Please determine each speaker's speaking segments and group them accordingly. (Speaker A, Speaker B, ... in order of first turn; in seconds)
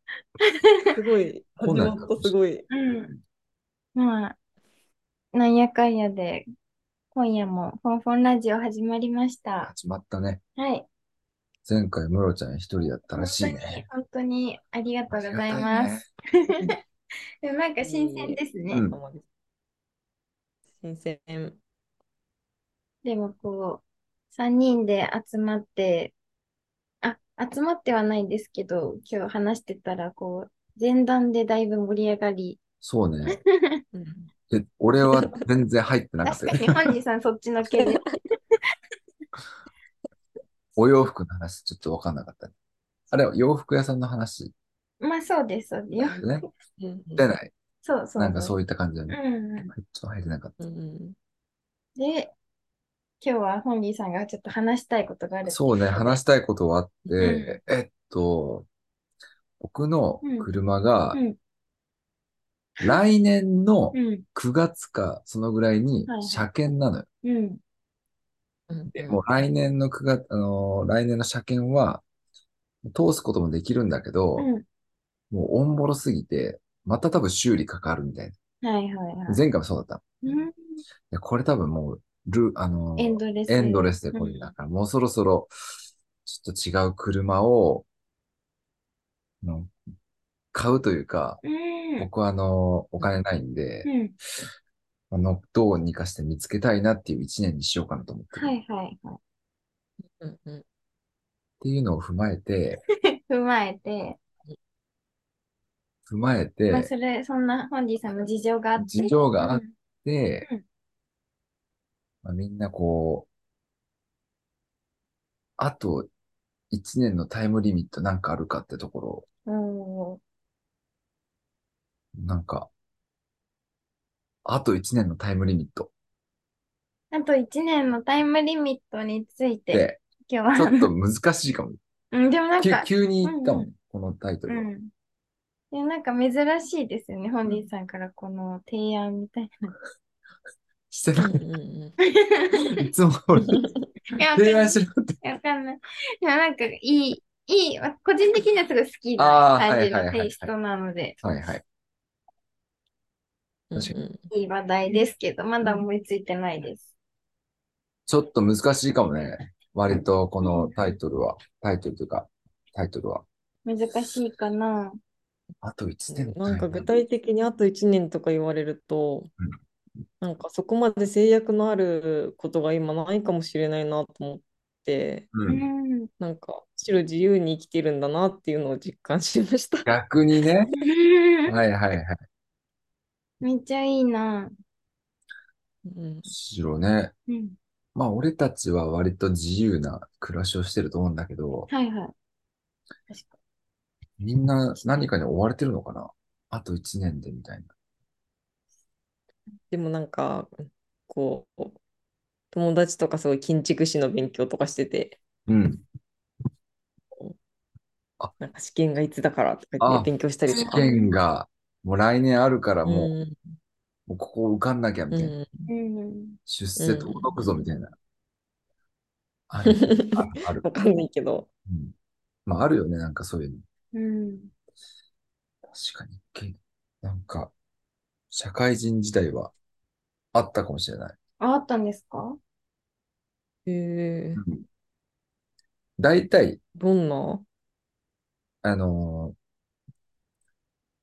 Speaker A: 0.4-0.9, 2.7-3.2, 4.0-4.4, 5.3-6.4, 7.1-9.7, 10.6-10.9, 13.1-16.8, 17.4-18.9, 23.0-26.1, 27.0-32.6, 33.3-33.8, 36.2-38.1, 45.0-46.4, 47.8-48.6, 49.1-49.7, 52.0-52.3, 53.2-56.2, 57.2-57.6, 60.2-60.5, 63.9-64.2, 66.1-66.5, 67.2-67.6, 74.4-74.6, 78.6-79.4, 80.2-80.8, 83.0-84.5, 91.4-92.1, 93.8-94.1, 98.3-99.2, 103.3-104.2, 106.7-109.7, 119.5-120.2, 127.1-130.9, 132.1-133.7, 134.5-134.9, 135.7-139.7, 142.0-142.8, 144.1-151.2, 154.3-156.9, 160.4-160.9, 163.7-165.0, 175.5-176.1, 180.8-181.6, 183.4-184.5, 187.3-187.6, 191.7-192.1, 193.1-193.4, 210.5-211.1, 215.7-216.4, 223.9-224.5, 231.4-232.4
Speaker B: 0.9-2.7, 17.8-19.2, 20.8-21.6, 33.9-34.3, 35.0-35.4, 37.7-38.1, 46.8-47.2, 50.6-51.2, 68.7-69.2, 100.1-100.6, 141.2-141.9, 143.4-143.7, 153.7-154.2, 166.1-169.3, 170.2-175.3, 176.2-179.9, 185.8-186.3, 199.7-201.8, 202.5-205.2, 208.4-210.8, 212.8-213.5, 215.1-215.7, 216.8-217.5, 219.7-221.5, 233.7-234.4, 236.8-237.4
Speaker C: 1.6-2.3, 9.7-10.4, 11.7-13.8, 15.1-16.0, 18.7-19.0, 32.8-33.3, 34.5-36.9, 40.8-42.5, 43.1-44.5, 46.0-46.5, 47.2-47.5, 48.2-49.2, 49.7-50.6, 55.5-58.7, 59.6-61.2, 62.8-67.0, 68.9-72.0, 72.8-74.5, 75.3-78.3, 79.3-80.2, 81.1-85.5, 86.2-87.8, 89.4-89.7, 90.5-91.4, 92.0-93.9, 95.1-98.5, 101.6-102.8, 106.1-106.9, 108.8-110.5, 112.2-113.3, 115.6-116.1, 116.7-119.2, 122.1-122.7, 124.5-125.9, 129.7-130.0, 130.6-131.8, 132.6-134.7, 140.9-141.4, 142.7-143.7, 144.3-145.1, 149.2-150.5, 151.2-151.6, 158.1-163.2, 165.6-166.9, 175.3-175.7, 179.9-180.7, 181.5-182.2, 186.3-187.1, 187.9-191.7, 194.2-197.7, 205.5-205.8, 209.8-213.1, 214.1-215.3, 216.5-217.9, 219.5-220.7, 221.7-221.9, 222.5-223.6, 225.7-227.5, 228.3-229.5, 230.3-231.2, 234.4-234.7, 236.0-236.6, 238.6-239.4